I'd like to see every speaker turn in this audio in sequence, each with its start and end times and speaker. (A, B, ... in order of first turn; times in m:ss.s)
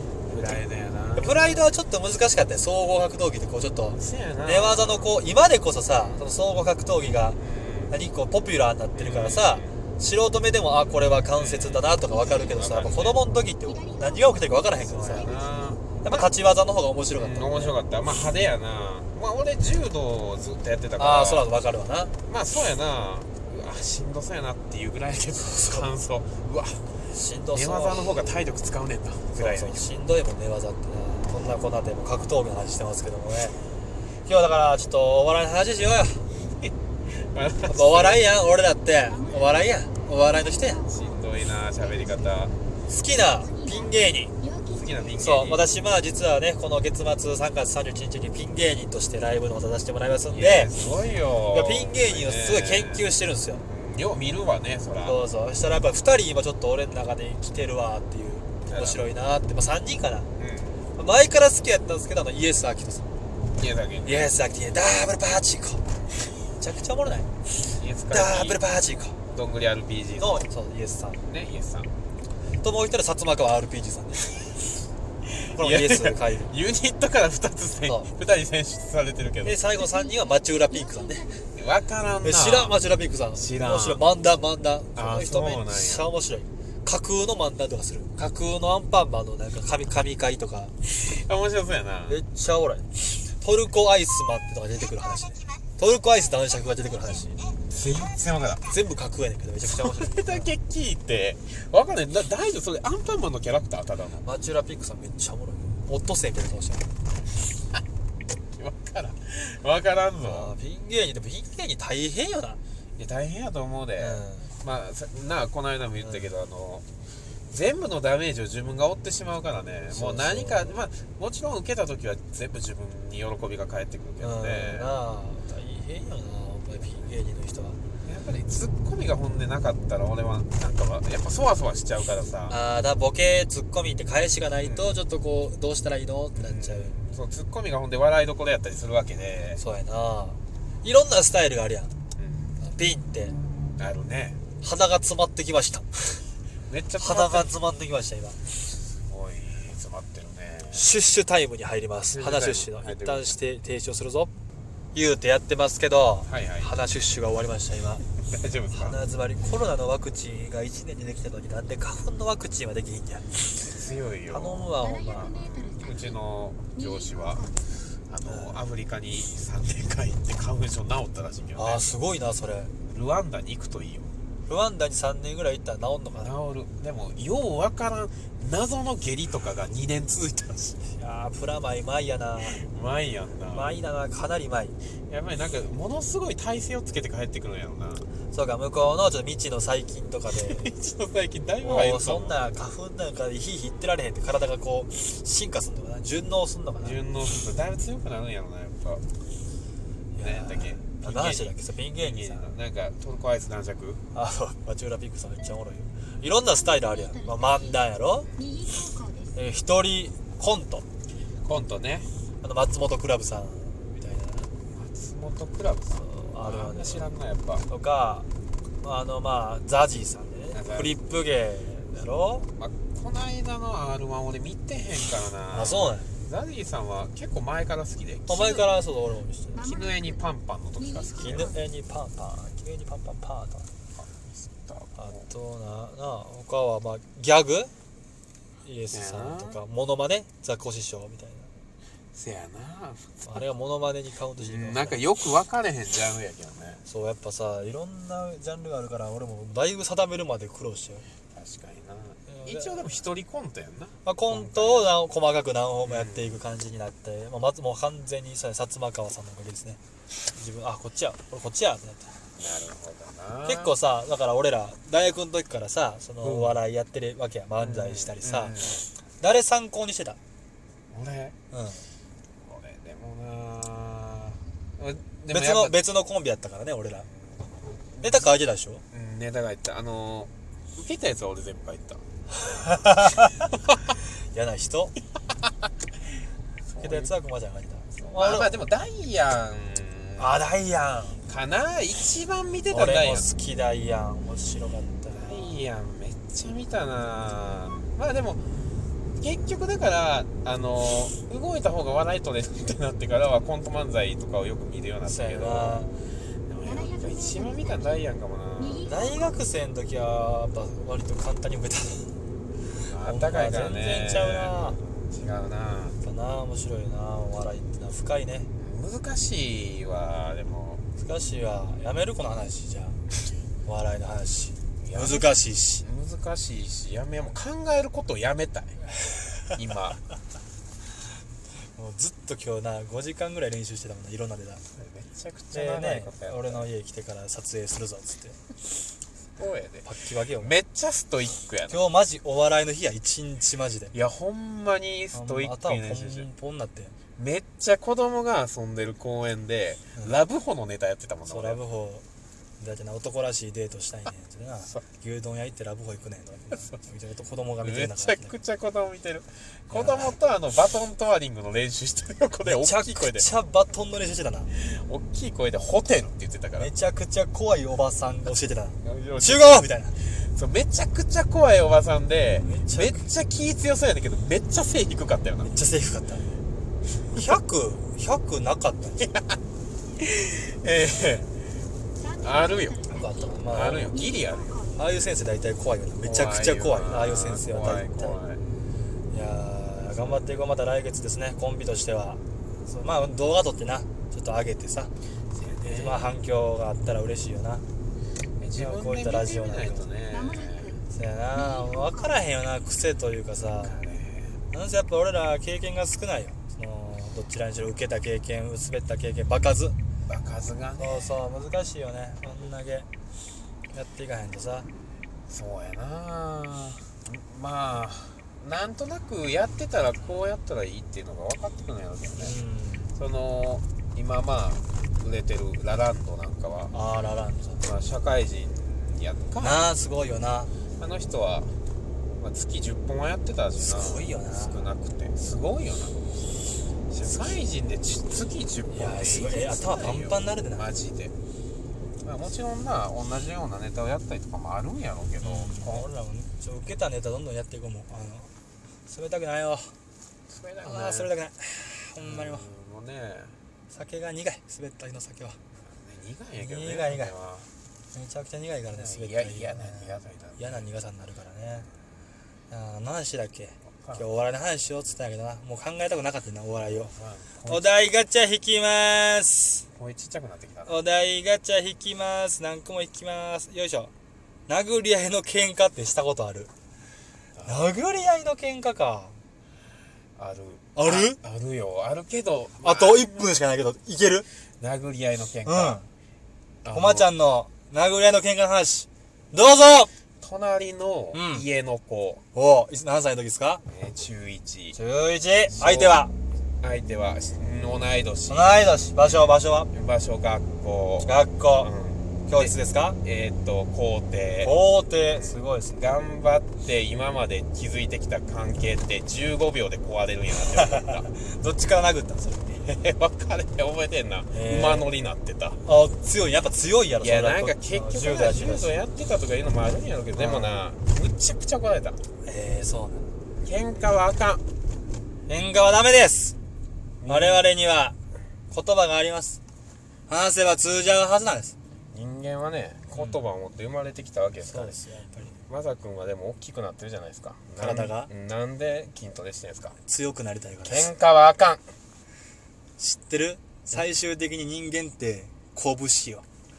0:00.2-0:01.6 A
0:01.2-0:15.4 B
0:03.9-0:05.1 A
0:05.9-0:06.2 A
0:07.4-0:08.0 A
0:08.9-0:09.8 A
0:11.3-0:13.2 A
0:13.8-0:14.6 C
0:14.8-0:16.3 A
0:16.0-0:17.7 B
0:17.1-0:21.5 A
0:21.0-0:22.1 B
0:22.3-0:26.8 A
0:25.5-0:25.8 B
0:27.1-0:28.4 B
0:27.5-0:29.9 A
0:29.3-0:33.6 B
0:34.2-0:36.3 B
0:36.6-0:38.2 A
0:37.7-0:40.8 B
0:40.8-0:42.5 A
0:42.9-0:44.3 B
0:44.4-0:44.8 C
0:44.7-0:45.6 A
0:45.2-0:50.7 B
0:50.3-0:53.1 A
0:51.5-0:53.6 B
0:53.6-0:55.2 A
0:55.0-1:00.3 B
0:58.7-0:59.0 A
1:00.4-1:00.8 A
1:00.9-1:03.1 B
1:03.6-1:04.3 A
1:04.0-1:05.8 B
1:06.6-1:07.3 B
1:07.7-1:08.6 A
1:08.1-1:09.2 B
1:09.3-1:10.5 A
1:10.2-1:11.2 B
1:11.2-1:11.9 A
1:12.6-1:14.5 B
1:15.2-1:19.6 A
1:15.5-1:16.5 B
1:17.8-1:18.1 B
1:19.4-1:21.3 B
1:20.5-1:21.5 C
1:21.5-1:22.8 A
1:22.2-1:30.7 B
1:23.3-1:24.0 A
1:24.9-1:26.1 A
1:30.9-1:32.2 A
1:32.1-1:32.9 B
1:33.4-1:37.4 B
1:37.7-1:38.6 A
1:38.7-1:40.5 B
1:39.6-1:44.2 A
1:44.2-1:46.9 B
1:48.5-1:50.5 A
1:50.2-1:52.6 B
1:53.0-1:56.8 A
1:54.0-1:54.5 B
1:57.5-2:04.9 A
1:59.9-2:00.8 B
2:04.2-2:07.8 B
2:08.0-2:12.6 A
2:12.5-2:17.0 B
2:14.6-2:15.0 A
2:16.3-2:19.6 A
2:19.6-2:21.9 B
2:22.2-2:22.6 A
2:22.6-2:23.4 B
2:23.8-2:24.4 A
2:24.6-2:26.2 B
2:26.7-2:27.5 A
2:27.0-2:28.4 B
2:28.8-2:30.9 A
2:30.7-2:34.3 B
2:32.1-2:33.4 A
2:34.9-2:38.0 B
2:36.2-2:36.8 A
2:38.2-2:39.0 A
2:38.7-2:43.3 B
2:43.6-2:47.4 A
2:44.3-2:45.4 B
2:44.8-2:45.9 C
2:47.2-2:47.6 C
2:48.1-2:51.8 A
2:48.2-2:48.6 B
2:51.6-2:52.7 B
2:52.9-2:54.1 A
2:54.5-2:56.3 B
2:56.2-3:00.8 A
3:00.8-3:02.6 B
3:02.5-3:03.7 A
3:03.5-3:04.8 B
3:05.1-3:08.0 A
3:08.3-3:10.7 B
3:10.4-3:12.4 A
3:11.6-3:17.0 B
3:16.8-3:19.0 A
3:20.1-3:22.5 B
3:20.2-3:24.0 A
3:24.1-3:28.3 B
3:28.4-3:29.3 C
3:29.3-3:30.8 B
3:31.4-3:32.1 A
3:32.4-3:34.5 B
3:34.7-3:37.6 A
3:36.0-3:37.1 B
3:37.7-3:38.3 B
3:38.8-3:42.5 B
3:40.5-3:41.0 A
3:42.5-3:48.7 A
3:45.5-3:46.1 B
3:48.3-3:49.6 B
3:49.6-3:51.5 A
3:51.0-3:51.4 C
3:51.2-3:53.7 B
3:54.0-3:55.3 A
3:55.0-3:57.7 B
3:58.6-4:01.5 B
3:58.9-3:59.6 A
4:02.1-4:03.4 A
4:03.2-4:05.0 B
4:04.4-4:06.8 A
4:06.8-4:11.0 B
4:11.3-4:14.9 A
4:12.3-4:13.0 B
4:14.0-4:19.8 B
4:15.8-4:16.4 A
4:20.3-4:22.2 B
4:22.4-4:23.7 A
4:23.4-4:28.6 B
4:26.2-4:26.6 A
4:27.6-4:28.8 A
4:29.2-4:30.2 B
4:30.9-4:31.4 A
4:31.5-4:31.8 B
4:32.4-4:35.8 A
4:35.3-4:37.1 B
4:37.3-4:38.3 A
4:38.0-4:38.8 B
4:38.9-4:42.0 A
4:42.4-4:43.5 B
4:44.3-4:44.9 B
4:46.7-4:47.1 A
4:46.8-4:48.5 B
4:48.0-4:50.4 A
4:50.2-4:51.2 B
4:51.3-4:53.3 A
4:52.7-4:55.6 B
4:55.1-4:58.4 A
4:59.2-5:05.9 A
5:05.0-5:05.9 B
5:06.5-5:08.9 A
5:06.9-5:07.7 C
5:08.7-5:09.0 C
5:08.8-5:12.1 B
5:12.8-5:16.0 A
5:13.0-5:14.8 B
5:16.0-5:18.5 B
5:18.6-5:20.8 A
5:21.0-5:23.0 B
5:23.6-5:25.8 B
5:24.8-5:28.8 A
5:29.5-5:30.0 A
5:31.7-5:34.6 B
5:34.7-5:36.7 A
5:35.5-5:38.4 B
5:39.4-5:39.9 A
5:39.8-5:40.5 B
5:40.4-5:41.8 A
5:41.7-5:43.9 B
5:43.9-5:46.3 A
5:45.1-5:46.9 B
5:47.2-5:51.6 A
5:51.3-5:52.0 B
5:52.6-5:58.3 B
5:57.6-6:03.2 A
5:59.7-6:00.1 B
6:02.4-6:04.5 B
6:04.5-6:06.7 A
6:06.6-6:10.0 B
6:08.8-6:15.5 A
6:12.4-6:13.0 B
6:15.4-6:16.3 B
6:17.1-6:19.1 B
6:19.0-6:19.4 A
6:20.0-6:21.3 A
6:22.0-6:23.4 C
6:22.2-6:22.9 A
6:22.9-6:24.0 B
6:23.5-6:24.6 A
6:24.2-6:24.7 C
6:24.8-6:28.2 B
6:26.0-6:28.4 A
6:29.1-6:34.9 B
6:30.0-6:30.2 A
6:35.3-6:36.2 A
6:35.6-6:37.6 B
6:38.4-6:40.8 A
6:38.6-6:39.8 B
6:40.3-6:40.8 C
6:40.9-6:43.8 B
6:41.6-6:41.9 C
6:43.6-6:44.4 A
6:44.5-6:49.8 B
6:50.0-6:51.2 A
6:50.8-6:52.9 B
6:53.7-6:54.7 B
6:55.3-7:02.4 A
7:02.2-7:02.9 B
7:02.9-7:06.7 A
7:06.7-7:07.6 B
7:07.6-7:09.7 A
7:09.4-7:10.5 B
7:10.8-7:11.5 A
7:12.2-7:16.3 A
7:13.5-7:14.7 B
7:16.9-7:21.1 A
7:18.7-7:20.7 B
7:22.0-7:25.9 A
7:25.2-7:28.3 B
7:28.9-7:29.7 B
7:30.3-7:31.1 A
7:30.6-7:32.5 B
7:32.0-7:33.4 A
7:33.7-7:35.4 B
7:35.6-7:37.5 A
7:36.4-7:37.1 B
7:37.9-7:41.7 B
7:38.7-7:40.6 A
7:42.5-7:46.9 B
7:46.6-7:47.7 A
7:47.5-7:49.6 B
7:49.7-7:50.8 A
7:50.7-7:53.9 B
7:54.5-7:56.5 B
7:57.4-7:57.7 A
7:57.4-7:59.2 B
8:00.2-8:03.3 A
8:00.7-8:01.2 B
8:02.6-8:04.3 B
8:04.6-8:05.8 A
8:05.4-8:05.9 B
8:06.6-8:07.1 A
8:06.7-8:09.9 B
8:10.2-8:12.2 A
8:11.1-8:11.4 B
8:12.3-8:13.6 B
8:13.7-8:14.8 A
8:14.7-8:16.1 B
8:15.5-8:16.0 A
8:16.6-8:24.6 A
8:18.3-8:19.7 B
8:21.0-8:21.7 B
8:22.3-8:23.0 B
8:24.4-8:25.8 B
8:25.1-8:31.1 A
8:30.5-8:32.6 B
8:32.6-8:35.6 A
8:34.3-8:34.9 B
8:35.6-8:38.7 B
8:37.0-8:42.0 A
8:40.2-8:40.6 B
8:42.2-8:43.1 B
8:43.4-8:44.4 A
8:45.3-8:46.4 B
8:47.0-8:47.4 A
8:47.1-8:48.0 B
8:48.5-8:49.4 B
8:50.1-8:51.5 B
8:51.9-8:54.8 A
8:54.4-8:55.3 B
8:55.3-8:59.8 A
8:57.6-8:58.1 B
8:59.8-9:00.9 B
9:00.6-9:01.6 A
9:02.8-9:06.2 B